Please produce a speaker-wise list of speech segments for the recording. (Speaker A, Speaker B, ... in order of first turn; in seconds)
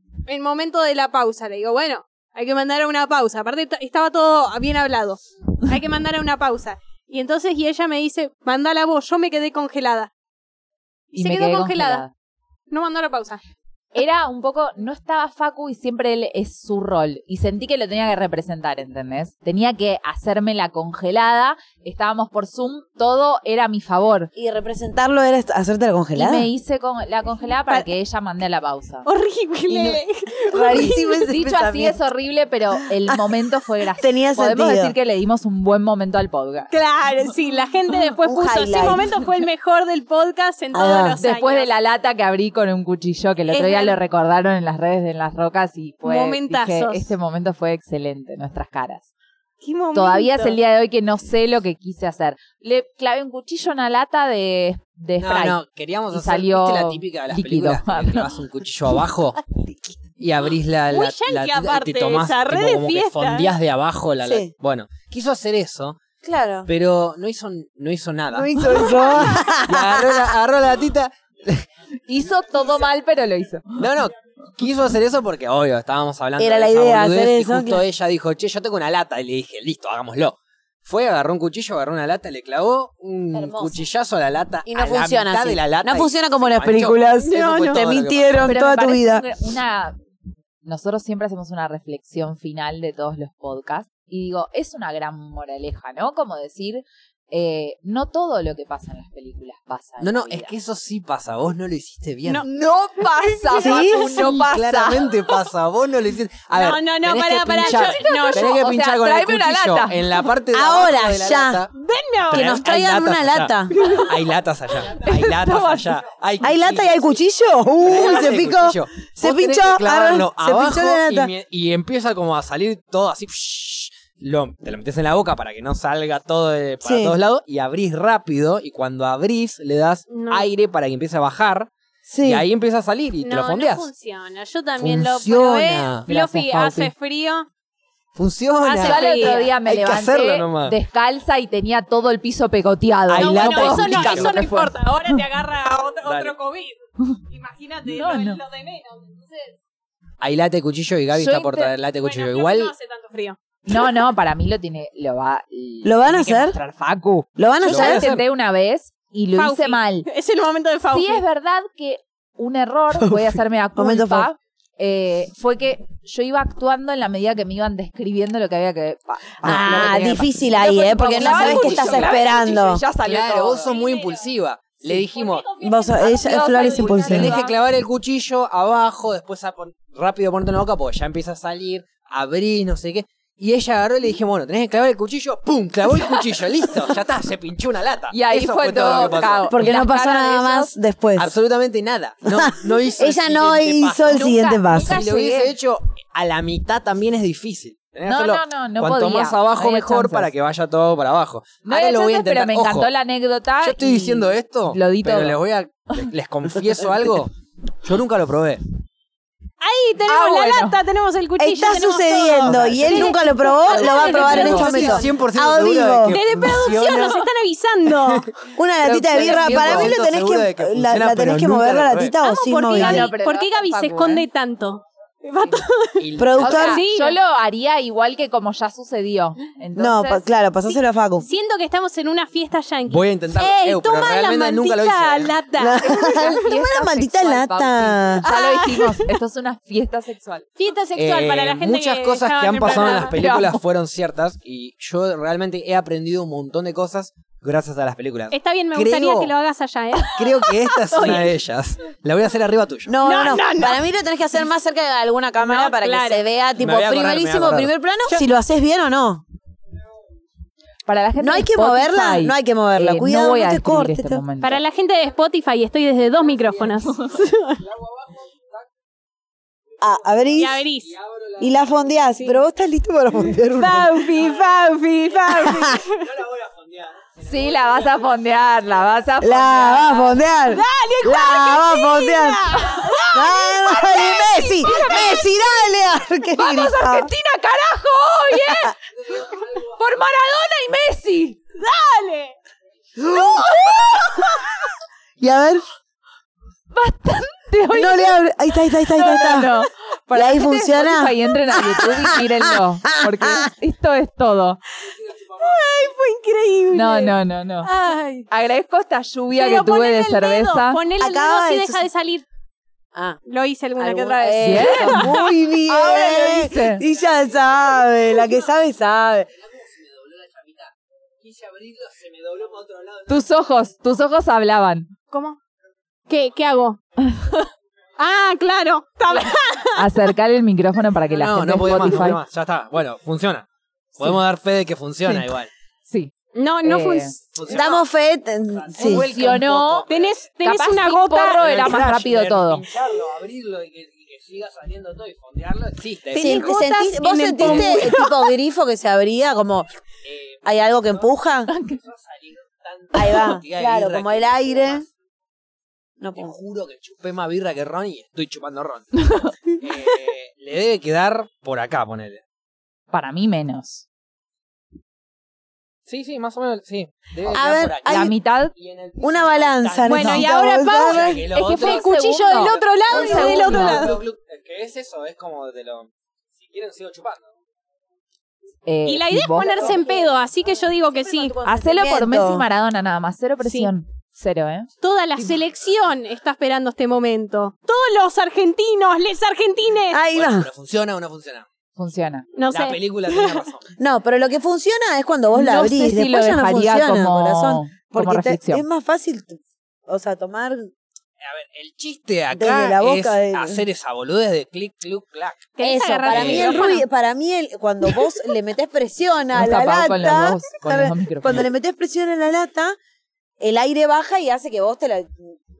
Speaker A: 0.3-10.1, 11.2-12.1, 12.7-13.4, 29.1-31.2, 36.7-41.7, 43.5-44.0, 46.0-47.1, 49.6-50.6, 60.9-63.5, 87.2-87.8, 103.2-103.8, 106.5-108.7, 111.7-112.6, 130.1-130.5, 133.2-137.5, 138.6-139.5, 143.2-146.8, 147.3-149.6, 152.0-153.4, 159.3-161.2, 173.6-174.3, 175.2-175.9, 209.6-215.1, 216.1-218.3, 222.1-227.2, 230.7-236.4, 238.2-239.1, 240.6-243.2, 248.3-251.3, 253.0-253.9, 255.4-256.2, 264.4-267.6, 270.4-270.9, 273.6-276.1, 280.5-285.3, 291.6-292.4, 293.7-294.4, 299.0-299.7, 305.4-308.3, 309.3-312.2, 313.3-315.2, 325.1-325.4, 326.1-326.8, 328.0-330.1, 336.4-337.3, 339.9-341.5, 346.1-348.3, 369.8-374.0, 378.9-381.4, 383.4-383.7, 384.8-390.0, 392.4-393.5, 405.6-406.9
Speaker B: 11.1-12.1, 13.9-24.3, 26.2-29.1, 30.8-36.7, 41.2-49.1, 49.9-55.6, 56.1-58.3, 72.1-73.9, 88.4-90.0, 90.7-100.5, 102.4-105.2, 108.0-110.0, 113.7-114.1, 115.0-116.0, 136.1-136.9, 138.8-145.2, 147.9-148.4, 151.1-151.7, 153.7-160.1, 160.9-173.8, 175.6-177.6, 185.9-186.3, 188.1-190.8, 194.1-195.6, 198.1-200.3, 201.7-205.4, 210.1-210.8, 213.6-215.0, 219.2-219.9, 222.7-224.2, 226.4-230.3, 235.8-240.5, 243.1-243.6, 260.9-264.6, 277.2-280.1, 282.7-283.0, 283.9-284.9, 286.4-291.4, 296.7-298.2, 298.9-304.6, 306.7-307.7, 308.3-310.8, 314.4-315.1, 315.7-316.8, 323.1-324.9, 327.0-327.4, 329.1-332.2, 335.9-336.1, 336.6-337.1, 338.9-339.9, 340.4-342.6, 351.5-351.8, 359.0-359.3, 362.9-363.9, 367.9-368.5, 370.0-370.3, 371.3-373.9, 378.7-379.8, 381.4-384.7, 391.8-392.3, 395.3-398.7, 409.3-411.5
Speaker C: 24.4-26.5, 29.7-32.0, 34.0-35.0, 38.2-39.1, 40.7-41.2, 64.2-64.5, 66.2-66.7, 68.3-70.3, 76.4-77.8, 83.3-83.8, 84.7-89.3, 103.5-104.3, 110.5-111.7, 112.3-113.7, 116.4-121.3, 126.8-127.2, 132.1-132.5, 155.8-156.6, 157.4-158.1, 163.0-164.3, 169.4-172.8, 175.6-177.4, 189.5-191.3, 192.3-195.0, 211.4-216.2, 218.6-223.1, 226.2-226.8, 229.8-231.3, 235.6-238.3, 252.9-259.2, 261.2-264.2, 269.8-270.7, 271.4-274.1, 275.3-275.8, 279.2-287.1, 293.0-294.4, 295.2-295.6, 297.7-299.5, 300.1-303.5, 311.0-311.9, 312.9-313.2, 313.8-319.3, 337.5-339.1, 346.1-349.7, 350.4-351.5, 352.9-354.9, 356.0-356.4, 367.3-368.1, 369.0-371.3, 379.4-380.2, 380.9-382.5, 389.9-390.5, 393.8-400.7, 402.3-403.7, 405.6-412.8, 413.4-415.4
Speaker D: 55.2-59.5, 60.2-66.0, 66.7-71.7, 73.8-88.5, 100.0-102.5, 103.9-111.7, 112.3-117.2, 117.8-131.7, 132.2-133.9, 134.8-136.1, 138.2-140.8, 143.1-144.3, 146.0-146.3, 150.2-152.7, 157.7-158.2, 169.5-170.1, 171.2-172.2, 173.0-175.5, 176.3-189.7, 191.2-202.9, 203.6-208.6, 212.4-213.1, 214.0-217.3, 217.9-218.3, 218.8-222.1, 226.0-226.8, 232.9-235.3, 241.0-249.3, 250.2-253.4, 256.6-257.7, 266.3-266.7, 267.6-268.6, 270.2-271.6, 276.0-278.0, 319.5-323.2, 331.1-335.5, 337.4-337.8, 338.5-340.2, 341.3-346.6, 347.4-348.0, 350.0-351.1, 351.7-354.9, 356.2-362.2, 365.9-370.1, 370.7-377.3, 390.1-391.5, 392.5-393.7, 401.2-405.5, 406.1-406.8